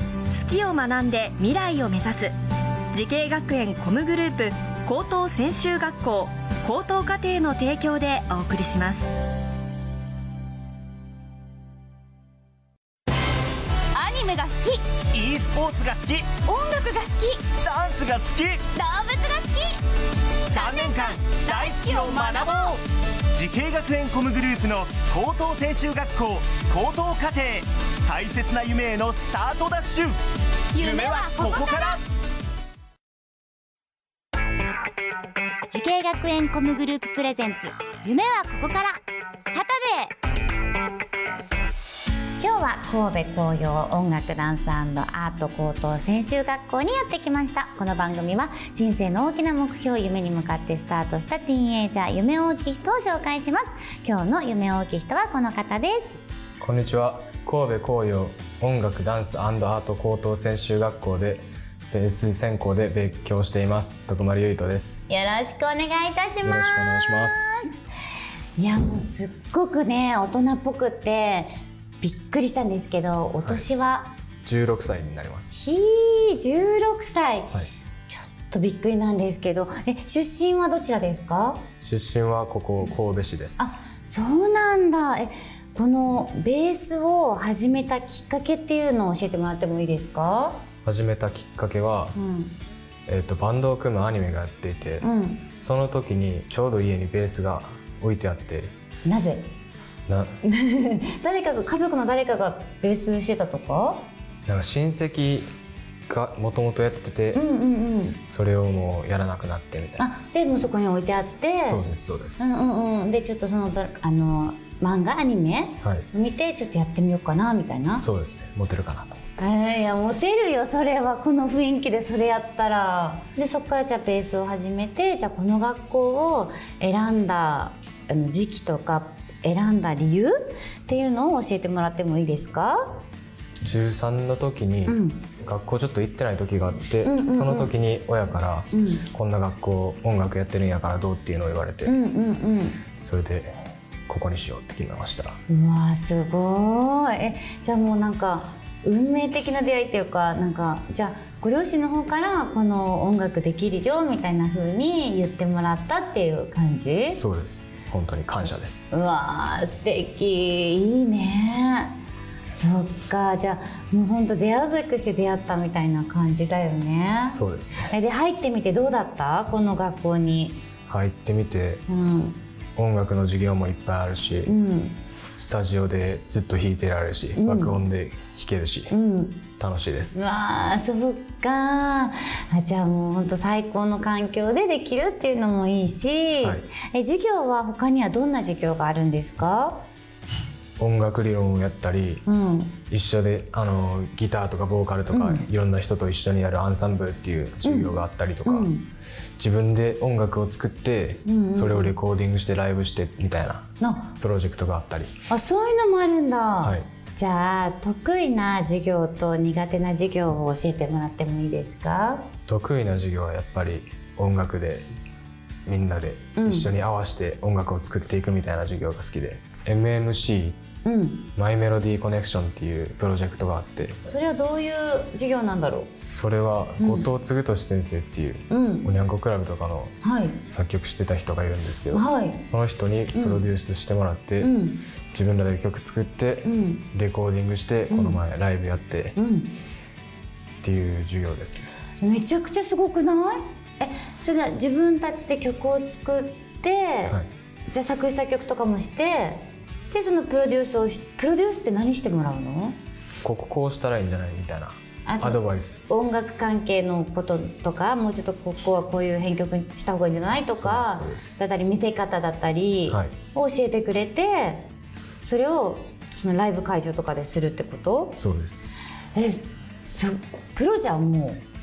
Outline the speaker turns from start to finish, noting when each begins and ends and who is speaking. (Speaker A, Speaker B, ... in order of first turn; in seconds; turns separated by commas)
Speaker A: 0.3-2.3, Speaker A: 2.9-9.1, Speaker B: 13.9-14.8, Speaker C: 15.1-16.3, Speaker B: 16.4-17.5, Speaker C: 17.6-18.6, Speaker B: 18.7-19.8, Speaker B: 20.5-22.8, Speaker C: 20.5-22.8, Speaker C: 23.3-30.1, Speaker B: 30.7-32.0, Speaker C: 30.8-32.0, Speaker D: 35.7-40.1, Speaker D: 42.4-56.2, Speaker E: 56.6-65.1, Speaker D: 65.1-67.7, Speaker E: 66.4-67.7, Speaker D: 68.6-74.1, Speaker E: 74.4-75.7, Speaker D: 75.5-77.5, Speaker D: 78.1-81.6, Speaker E: 81.8-83.7, Speaker D: 83.6-90.6, Speaker E: 90.8-92.2, Speaker D: 92.1-92.5, Speaker E: 93.1-95.0, Speaker D: 95.0-95.5, Speaker E: 95.6-98.7, Speaker D: 99.0-99.5, Speaker E: 100.1-100.3, Speaker D: 100.4-104.1, Speaker E: 104.5-105.5, Speaker E: 106.1-107.4, Speaker D: 107.3-108.2, Speaker E: 108.2-110.1, Speaker D: 110.0-111.8, Speaker E: 111.6-112.6, Speaker D: 112.4-118.0, Speaker E: 117.9-119.2, Speaker D: 119.4-133.0, Speaker E: 133.6-141.9, Speaker D: 134.9-135.2, Speaker D: 137.0-137.7, Speaker D: 138.7-139.0, Speaker D: 141.8-142.8, Speaker E: 143.0-145.4, Speaker D: 145.5-157.2, Speaker E: 157.1-159.0, Speaker D: 158.9-161.9, Speaker D: 162.5-170.6, Speaker E: 167.2-167.9, Speaker E: 170.9-171.8, Speaker D: 171.9-172.4, Speaker E: 172.8-174.5, Speaker D: 174.4-175.0, Speaker E: 175.3-178.9, Speaker D: 177.3-177.8, Speaker D: 178.9-179.4, Speaker E: 179.6-180.3, Speaker D: 180.1-189.8, Speaker E: 186.4-186.7, Speaker E: 190.8-192.2, Speaker D: 192.2-192.8, Speaker E: 192.9-198.7, Speaker D: 195.1-195.4, Speaker D: 197.6-198.9, Speaker E: 199.4-203.7, Speaker D: 201.2-201.9, Speaker D: 203.8-204.1, Speaker E: 204.2-205.1, Speaker D: 205.3-212.3, Speaker E: 206.6-206.8, Speaker E: 212.5-214.9, Speaker E: 215.6-220.6, Speaker D: 216.3-216.7, Speaker D: 220.8-221.3, Speaker E: 221.3-224.2, Speaker D: 224.1-225.9, Speaker E: 226.1-234.5, Speaker D: 226.8-227.1, Speaker D: 228.5-228.9, Speaker D: 230.0-230.4, Speaker D: 231.9-232.4, Speaker D: 233.1-233.4, Speaker D: 234.4-234.8, Speaker E: 235.1-239.2, Speaker D: 236.4-236.8, Speaker D: 237.9-238.2, Speaker D: 239.2-239.5, Speaker E: 240.6-241.7, Speaker D: 242.0-247.2, Speaker D: 247.7-252.7, Speaker E: 253.2-255.8, Speaker D: 255.0-264.7, Speaker E: 260.6-261.4, Speaker E: 262.9-263.1, Speaker D: 265.2-268.2, Speaker E: 268.2-268.8, Speaker D: 269.1-271.4